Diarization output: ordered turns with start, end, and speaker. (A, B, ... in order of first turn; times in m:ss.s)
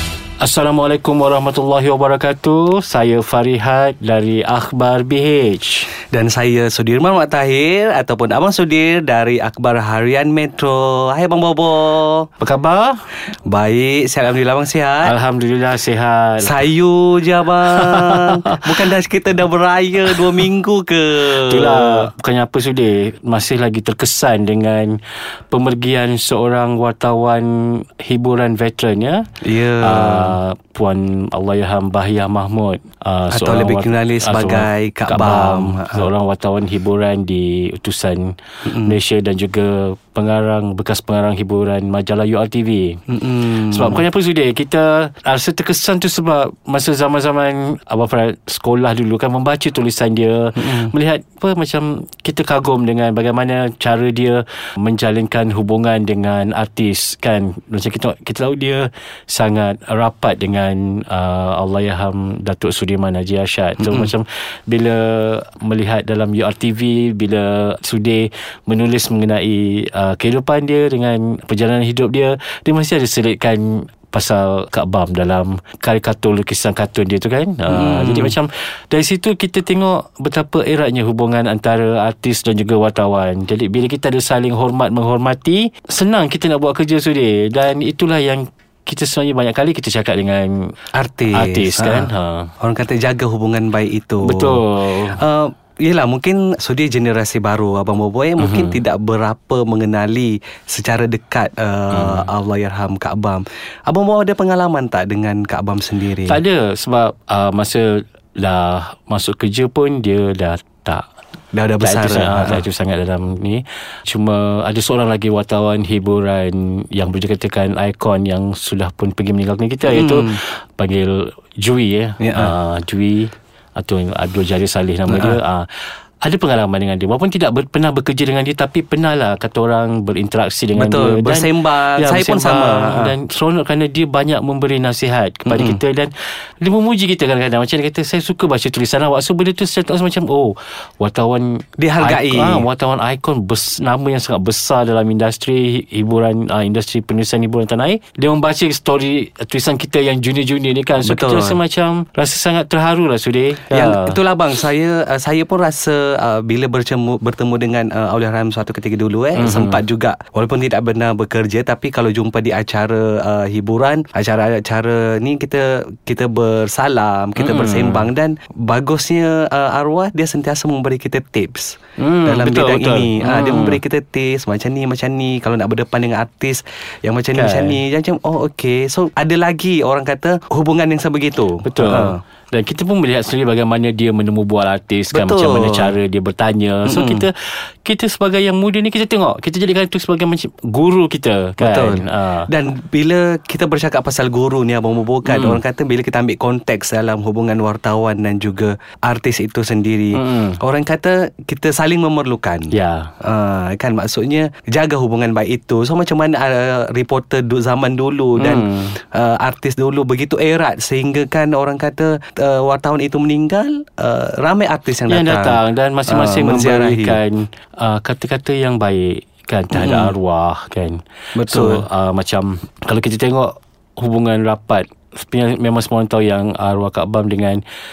0:00.4-0:05.9 A
0:06.1-0:12.3 B
0:12.4-0:13.0 A
0:13.3-0:15.1 B
0:15.0-0:16.6 A
0:16.4-0:22.1 B
0:17.7-0:18.6 A
0:21.4-0:25.0 A
0:25.5-0:29.2 A
0:29.4-0:30.4 B
0:29.8-0:43.0 A
0:33.3-0:36.0 B
0:38.6-0:38.9 B
0:43.1-0:44.0 B
0:43.6-1:30.6 A
0:50.6-0:50.9 B
1:03.8-1:04.1 B
1:17.7-1:18.4 B
1:30.9-1:32.1 B
1:31.3-1:32.5 A
1:32.6-1:34.6 B
1:34.2-1:35.2 A
1:35.1-1:46.4 B
1:38.4-1:38.8 A
1:41.9-1:42.3 A
1:46.2-1:51.0 A
1:51.5-1:52.6 B
1:51.8-2:05.7 A
1:59.9-2:00.4 B
2:02.2-2:02.5 B
2:05.1-2:05.4 B
2:06.2-2:34.1 A
2:10.8-2:13.1 B
2:15.5-2:15.8 B
2:21.8-2:22.7 B
2:31.0-2:31.6 B
2:33.7-3:02.2 B
2:39.4-2:39.8 A
2:47.4-2:48.1 A
2:52.0-2:53.8 A
2:57.3-2:57.8 A
3:01.6-3:12.5 A
3:05.1-3:05.9 B
3:06.9-3:07.3 B
3:11.6-3:22.7 B
3:15.2-3:15.6 A
3:20.1-3:20.6 A
3:22.7-3:23.1 A
3:23.2-3:37.2 B
3:28.4-3:28.9 A
3:35.1-3:47.6 A
3:39.7-3:40.1 B
3:41.3-3:41.8 B